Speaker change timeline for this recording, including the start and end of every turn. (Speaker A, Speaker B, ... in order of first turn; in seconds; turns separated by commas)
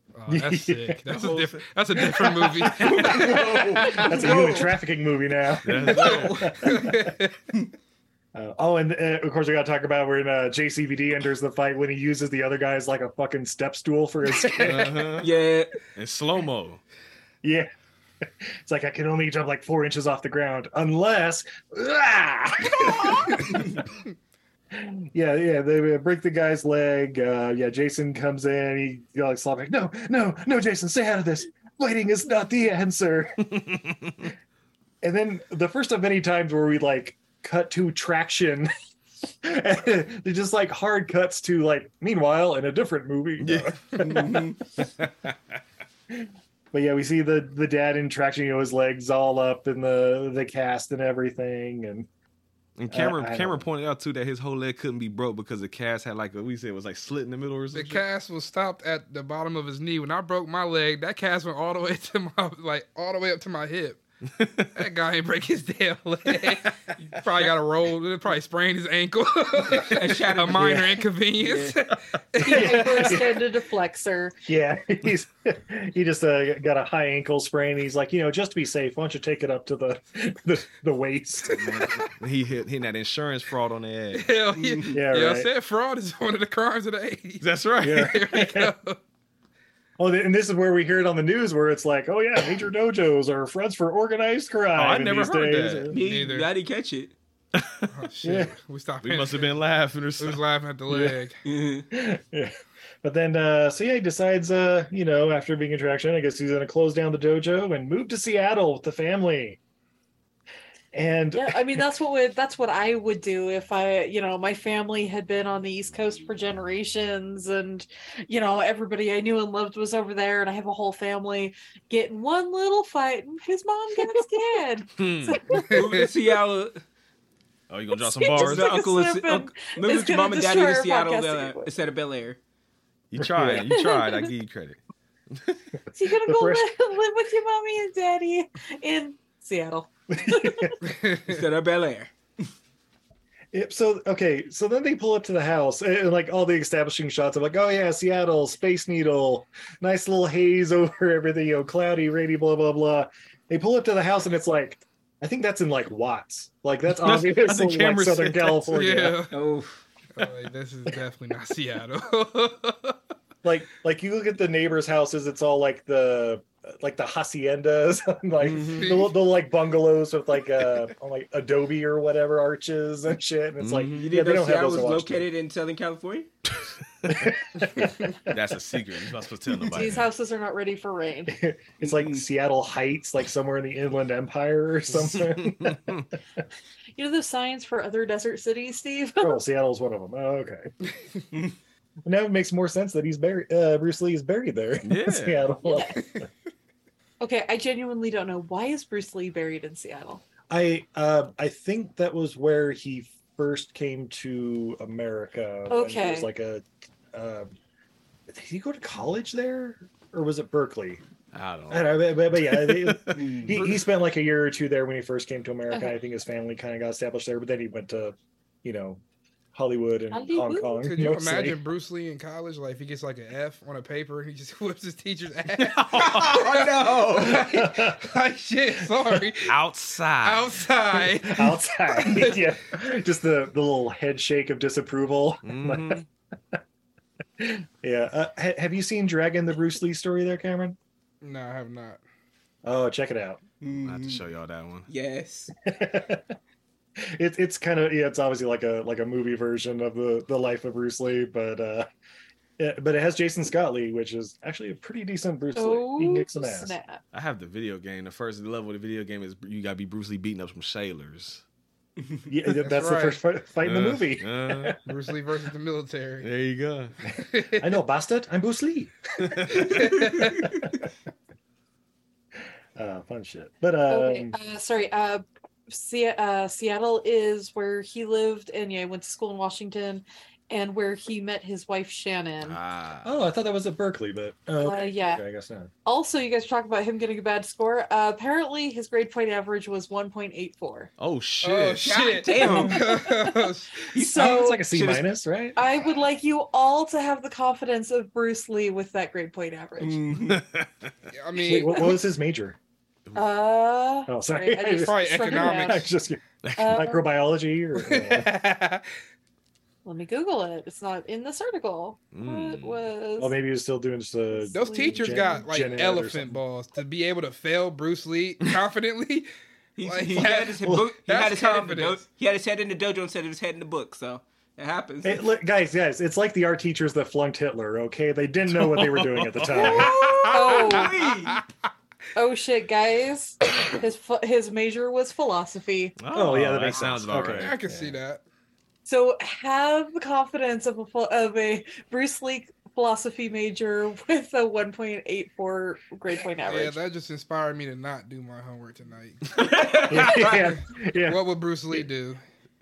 Speaker A: 0.1-3.4, Speaker B: 0.3-1.0, Speaker C: 1.1-1.6, Speaker B: 2.0-7.1, Speaker D: 2.8-4.7, Speaker C: 5.6-6.6, Speaker D: 6.0-6.5, Speaker A: 6.7-7.3, Speaker B: 8.3-15.2, Speaker C: 14.6-15.3, Speaker D: 15.2-15.8, Speaker C: 15.9-16.8, Speaker B: 17.4-17.7, Speaker B: 18.2-23.6, Speaker B: 24.7-33.5, Speaker C: 33.6-34.3, Speaker B: 35.0-38.7, Speaker B: 39.4-44.4, Speaker C: 43.4-43.7, Speaker D: 44.0-44.6, Speaker B: 46.1-52.1, Speaker C: 52.8-58.0, Speaker B: 52.9-53.6, Speaker A: 57.7-64.0, Speaker C: 64.4-64.7, Speaker A: 64.7-73.1, Speaker D: 69.7-70.8, Speaker D: 71.4-71.8, Speaker E: 72.4-74.3, Speaker B: 72.4-73.4, Speaker B: 74.5-81.7, Speaker C: 81.6-84.3, Speaker A: 84.1-89.0, Speaker D: 84.5-85.0, Speaker B: 84.9-85.5, Speaker C: 87.4-88.1, Speaker B: 87.8-88.7, Speaker B: 90.0-95.9, Speaker C: 94.8-96.0, Speaker D: 95.9-97.1, Speaker A: 96.0-96.5, Speaker C: 97.5-97.9, Speaker A: 97.9-99.7, Speaker B: 98.2-98.5, Speaker C: 99.0-100.4, Speaker A: 100.2-101.4, Speaker B: 100.9-101.2, Speaker D: 101.5-101.8, Speaker B: 101.9-102.5, Speaker B: 103.0-109.6, Speaker B: 110.9-111.9, Speaker E: 111.3-125.7, Speaker C: 125.0-125.4, Speaker D: 125.7-126.8, Speaker C: 127.7-128.9, Speaker E: 127.9-131.7, Speaker D: 128.3-132.4, Speaker C: 133.1-134.8, Speaker B: 133.2-133.7, Speaker E: 133.7-134.3, Speaker C: 135.3-135.6, Speaker E: 135.9-140.8, Speaker B: 136.2-136.7, Speaker B: 140.2-140.8, Speaker A: 140.9-141.3, Speaker D: 141.2-142.1, Speaker B: 143.5-159.2, Speaker C: 156.9-158.7, Speaker A: 158.7-159.4, Speaker D: 159.3-159.8, Speaker A: 160.2-163.0, Speaker B: 163.4-175.3, Speaker C: 168.4-169.0, Speaker A: 168.7-169.1, Speaker C: 173.6-174.1, Speaker D: 173.9-176.3, Speaker C: 176.6-177.3, Speaker B: 177.1-178.1, Speaker C: 178.2-180.1, Speaker E: 179.7-181.3, Speaker B: 181.3-186.0, Speaker D: 181.8-182.2, Speaker C: 185.6-186.0, Speaker E: 186.9-189.4, Speaker B: 189.2-190.7, Speaker B: 192.0-196.0, Speaker C: 194.8-195.6, Speaker E: 195.6-196.0, Speaker E: 197.2-200.2, Speaker B: 200.5-207.5, Speaker E: 205.7-206.3, Speaker B: 208.3-211.0, Speaker C: 211.3-213.5, Speaker B: 211.7-219.0, Speaker D: 213.2-213.6, Speaker B: 219.5-221.6, Speaker E: 220.1-220.8, Speaker A: 220.8-226.6, Speaker C: 225.6-226.7, Speaker D: 226.0-227.5, Speaker A: 227.2-229.6, Speaker B: 227.2-228.1, Speaker C: 229.4-230.6, Speaker A: 230.2-232.5, Speaker B: 231.0-236.6, Speaker C: 235.4-236.1, Speaker B: 237.4-240.8, Speaker A: 241.2-242.0, Speaker B: 242.6-243.4, Speaker D: 243.6-244.2, Speaker C: 243.8-244.9, Speaker D: 244.9-245.5, Speaker B: 245.6-246.3, Speaker B: 247.0-251.9, Speaker B: 252.6-256.7, Speaker E: 255.5-257.0, Speaker C: 257.1-261.4, Speaker B: 262.3-264.8, Speaker A: 262.6-263.2, Speaker C: 263.6-264.8, Speaker A: 264.8-266.3, Speaker C: 266.2-266.9, Speaker A: 267.3-267.6, Speaker B: 267.6-268.9, Speaker C: 269.2-269.7, Speaker A: 269.7-270.4, Speaker B: 272.8-274.3, Speaker E: 273.9-282.6, Speaker C: 282.4-283.1, Speaker B: 283.0-285.7, Speaker E: 284.6-285.2, Speaker E: 285.8-290.9, Speaker C: 291.0-291.9, Speaker A: 291.4-293.8, Speaker D: 291.8-293.1, Speaker D: 293.9-295.1, Speaker E: 293.9-294.6, Speaker B: 294.1-295.6, Speaker E: 295.6-300.0, Speaker D: 299.8-300.4, Speaker C: 300.3-300.9, Speaker A: 301.1-301.9, Speaker B: 301.4-302.6, Speaker E: 303.1-305.9, Speaker B: 304.1-308.3, Speaker A: 304.8-305.9, Speaker C: 306.4-306.8, Speaker E: 306.6-307.1, Speaker A: 307.8-308.8, Speaker E: 309.8-313.3, Speaker C: 312.1-312.9, Speaker B: 313.2-316.4, Speaker E: 314.4-315.4, Speaker A: 314.5-319.3, Speaker D: 319.8-325.2, Speaker A: 319.8-322.0, Speaker B: 320.6-320.9, Speaker B: 325.0-329.9, Speaker C: 328.5-330.4, Speaker D: 329.5-331.4, Speaker E: 329.6-330.9, Speaker A: 330.5-331.4, Speaker E: 332.1-335.9, Speaker C: 336.0-337.6, Speaker B: 336.1-337.9, Speaker A: 337.2-338.2, Speaker E: 338.9-346.8, Speaker A: 346.4-352.2, Speaker D: 349.4-350.5, Speaker B: 349.9-351.8